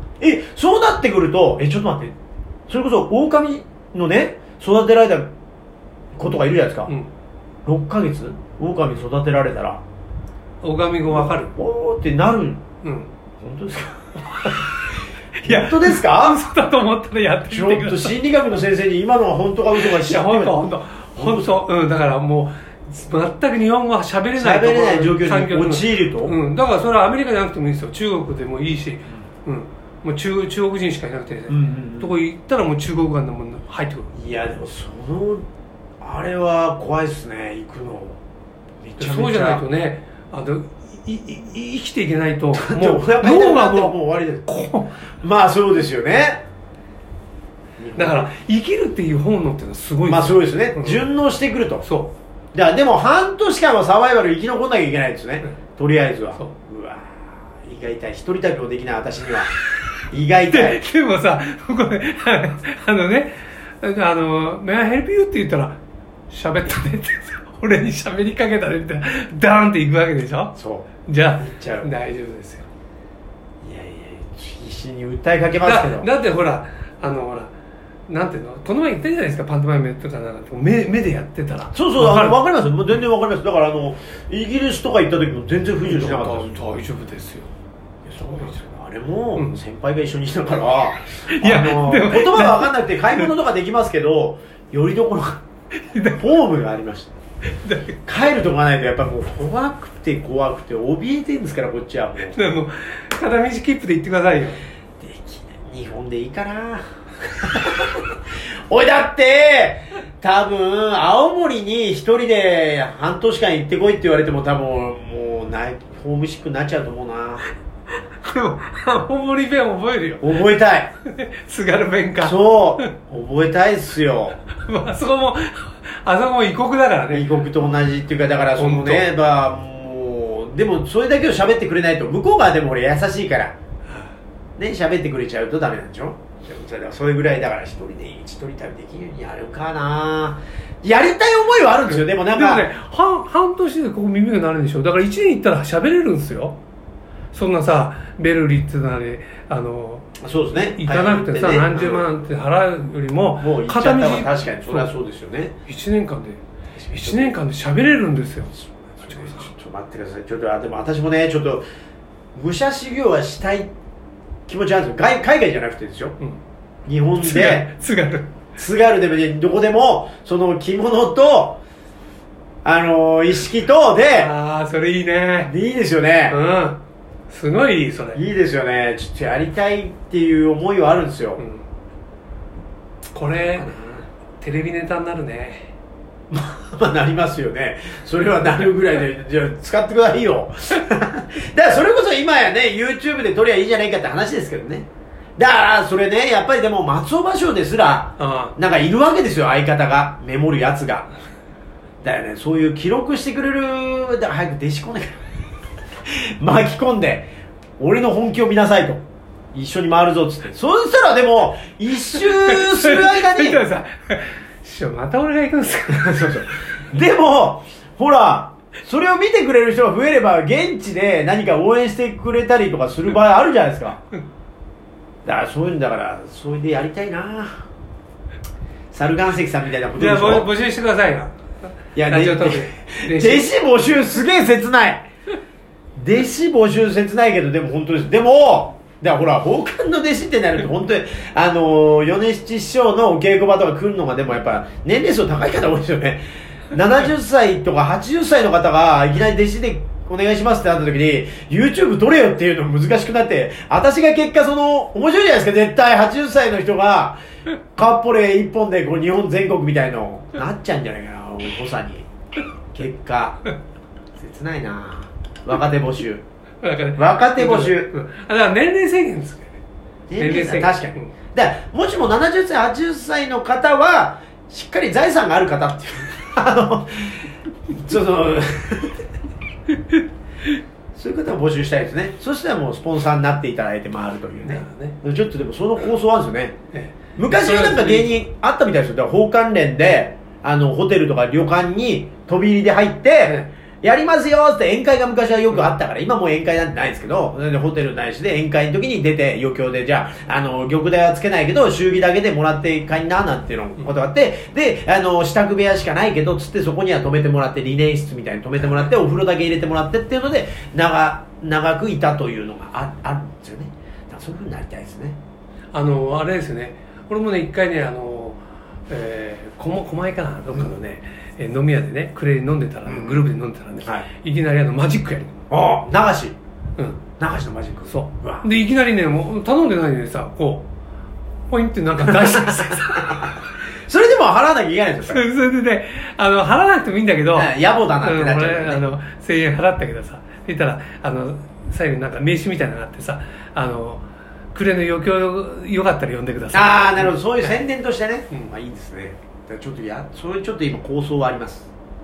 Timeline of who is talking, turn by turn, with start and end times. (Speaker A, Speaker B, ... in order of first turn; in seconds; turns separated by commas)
Speaker A: 0.2-2.1, Speaker A: 2.7-5.3, Speaker A: 6.2-6.9, Speaker A: 7.7-9.8, Speaker B: 10.6-11.5, Speaker A: 11.2-12.7, Speaker B: 12.8-13.1, Speaker A: 13.4-14.7, Speaker B: 14.4-14.7, Speaker B: 15.4-18.2, Speaker A: 15.4-16.5, Speaker A: 17.5-20.6, Speaker B: 19.7-34.1, Speaker A: 21.2-21.6, Speaker A: 24.4-26.4, Speaker A: 31.5-32.1, Speaker A: 34.1-35.5, Speaker A: 36.0-38.2, Speaker A: 38.8-39.6, Speaker B: 39.0-45.0, Speaker A: 42.5-44.5, Speaker A: 45.2-46.4, Speaker A: 47.8-48.3, Speaker B: 48.0-51.1, Speaker A: 50.1-51.9, Speaker B: 51.8-52.2, Speaker A: 52.5-59.5, Speaker A: 60.1-60.8, Speaker B: 60.5-65.8, Speaker B: 66.3-70.5, Speaker A: 70.6-70.9, Speaker B: 71.1-72.7, Speaker A: 71.4-71.9, Speaker A: 73.6-76.1, Speaker B: 75.6-77.5, Speaker B: 78.1-82.4, Speaker A: 81.7-86.7, Speaker B: 85.8-87.5, Speaker A: 88.0-95.4, Speaker B: 88.2-88.5, Speaker B: 89.3-89.6, Speaker B: 91.3-93.3, Speaker B: 95.7-96.2, Speaker A: 96.1-97.2, Speaker B: 97.5-98.0, Speaker A: 98.0-102.4, Speaker B: 102.3-104.6, Speaker A: 105.0-108.2, Speaker A: 108.7-117.5, Speaker B: 118.2-120.3, Speaker A: 120.2-120.9, Speaker B: 121.0-122.9, Speaker A: 122.2-124.4, Speaker B: 124.5-127.3, Speaker A: 127.1-133.6, Speaker B: 128.6-129.1, Speaker A: 134.6-142.7, Speaker B: 141.9-146.6, Speaker B: 147.3-150.1, Speaker A: 150.2-152.1, Speaker B: 150.7-154.9, Speaker A: 153.4-155.6, Speaker B: 155.7-156.4, Speaker A: 156.8-157.4, Speaker B: 156.9-158.5, Speaker A: 158.5-161.7, Speaker B: 159.0-159.5, Speaker A: 162.3-163.7, Speaker A: 164.5-166.2, Speaker A: 166.9-167.7, Speaker B: 167.2-168.4, Speaker A: 168.6-171.6, Speaker A: 172.7-174.3, Speaker B: 174.1-175.5, Speaker A: 175.5-176.4, Speaker B: 176.3-178.2, Speaker A: 178.2-181.4, Speaker B: 181.4-181.7, Speaker B: 183.1-183.7, Speaker A: 183.6-184.1, Speaker B: 184.4-185.7, Speaker A: 186.3-201.1, Speaker B: 198.2-198.5, Speaker A: 202.0-205.2, Speaker A: 206.4-213.6, Speaker B: 212.1-216.5, Speaker A: 215.9-224.0, Speaker A: 225.2-227.6, Speaker A: 228.9-230.5, Speaker B: 230.0-233.5, Speaker A: 232.0-235.1, Speaker A: 236.0-257.2, Speaker A: 257.8-262.1, Speaker A: 262.7-263.5, Speaker A: 264.2-266.2, Speaker B: 266.6-269.6, Speaker A: 267.0-267.9, Speaker A: 270.1-279.1, Speaker B: 270.2-271.1, Speaker A: 280.9-286.6, Speaker B: 284.4-285.0, Speaker B: 286.7-288.2, Speaker A: 287.2-315.2, Speaker B: 293.2-293.5, Speaker B: 315.7-325.4, Speaker A: 322.9-323.2, Speaker A: 325.5-326.4, Speaker B: 326.8-327.0, Speaker A: 327.2-328.5, Speaker B: 327.9-330.7, Speaker B: 331.5-333.3, Speaker A: 332.1-333.3, Speaker A: 333.9-335.2, Speaker B: 335.0-347.6, Speaker A: 337.3-338.9, Speaker A: 346.5-351.7